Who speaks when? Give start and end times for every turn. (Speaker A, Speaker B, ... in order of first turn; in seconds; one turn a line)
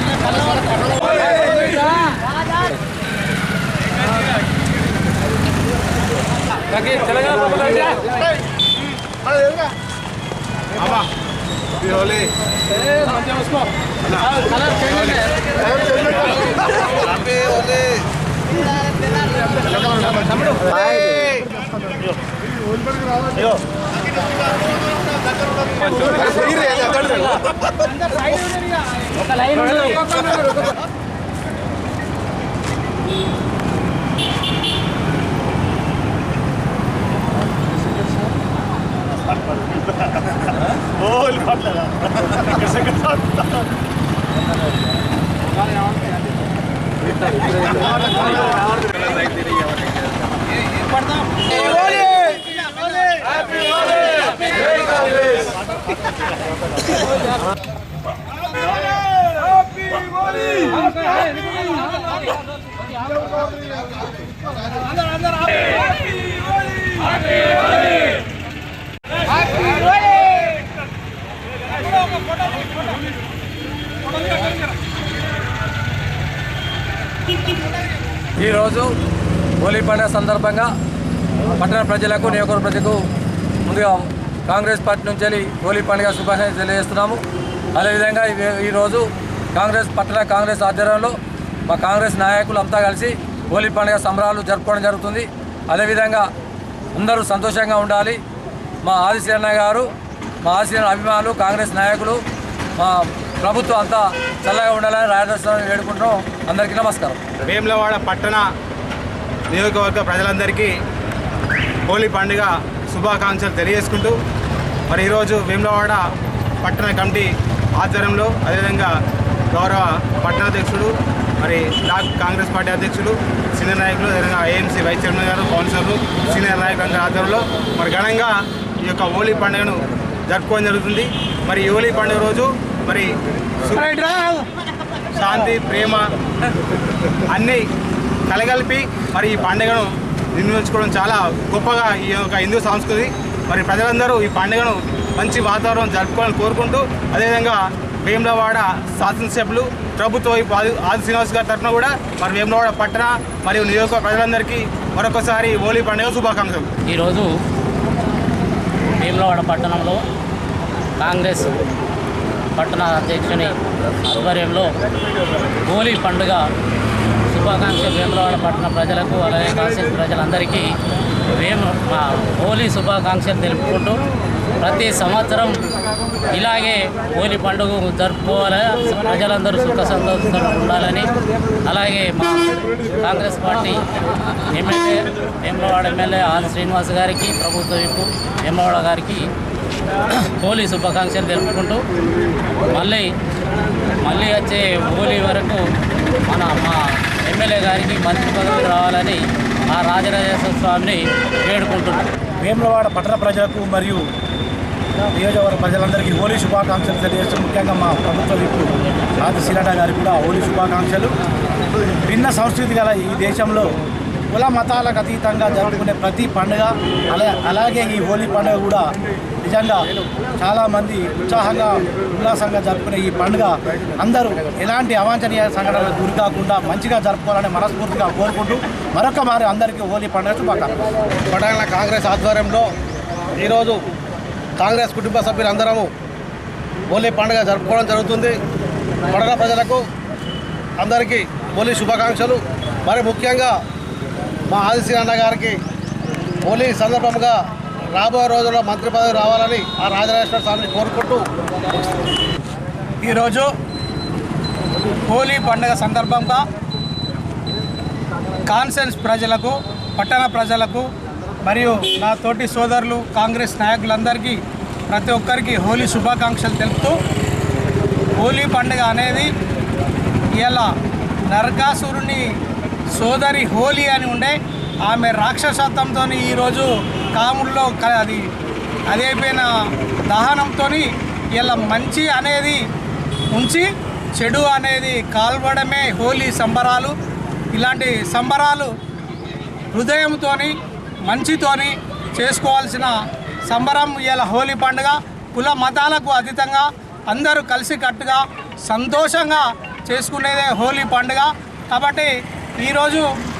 Speaker A: 6.7-8.1
Speaker B: 10.8-11.1
Speaker B: 11.8-12.3
Speaker B: 14.1-14.3
Speaker C: 15.8-16.4
Speaker C: 17.2-17.9
Speaker B: 20.2-21.4
Speaker D: 26.1-27.0
Speaker E: 28.1-28.6
Speaker D: 29.2-30.1
Speaker E: 50.9-53.2
Speaker A: 78.4-79.0
Speaker A: 79.6-80.7
Speaker A: 81.6-83.0
Speaker A: 83.7-87.2
Speaker A: 87.8-96.3
Speaker A: 97.0-98.2
Speaker A: 98.8-99.9
Speaker A: 100.4-102.2
Speaker A: 102.8-107.2
Speaker B: 107.4-108.5
Speaker B: 109.5-110.7
Speaker B: 111.9-114.2
Speaker B: 114.9-116.0
Speaker B: 116.6-118.9
Speaker B: 119.5-133.1
Speaker E: 133.8-134.4
Speaker B: 135.2-136.1
Speaker B: 137.3-137.6
Speaker B: 138.3-156.7
Speaker D: 156.9-157.3
Speaker D: 159.0-160.0
Speaker D: 161.0-161.6
Speaker D: 162.6-163.6
Speaker D: 164.1-164.7
Speaker D: 165.7-166.5
Speaker D: 167.3-170.7
Speaker D: 171.3-174.0
Speaker D: 174.6-175.7
Speaker D: 176.3-181.2
Speaker D: 181.7-183.8
Speaker D: 184.5-189.3
Speaker D: 190.4-191.8
Speaker D: 192.7-193.1
Speaker D: 194.0-195.6
Speaker D: 196.3-199.2
Speaker D: 199.7-202.1
Speaker F: 202.4-204.0
Speaker F: 205.1-211.1
Speaker F: 212.1-213.7
Speaker F: 214.3-218.9
Speaker F: 219.4-219.9
Speaker F: 220.4-230.8
Speaker C: 231.3-232.7
Speaker C: 233.4-233.8
Speaker C: 234.6-235.9
Speaker C: 236.9-238.4
Speaker C: 239.1-239.8
Speaker C: 240.8-243.6
Speaker C: 244.5-245.6
Speaker C: 246.4-247.4
Speaker C: 247.9-251.3
Speaker E: 253.0-253.5
Speaker E: 255.1-256.4
Speaker E: 258.5-260.9
Speaker E: 261.4-264.4
Speaker E: 264.9-267.0
Speaker E: 268.2-269.3
Speaker E: 270.4-270.7
Speaker E: 271.3-272.2
Speaker E: 272.9-278.2
Speaker E: 278.9-279.5
Speaker E: 280.1-282.6
Speaker E: 283.3-286.9
Speaker E: 287.5-288.7
Speaker E: 289.7-290.5
Speaker E: 291.1-292.9
Speaker E: 293.5-303.1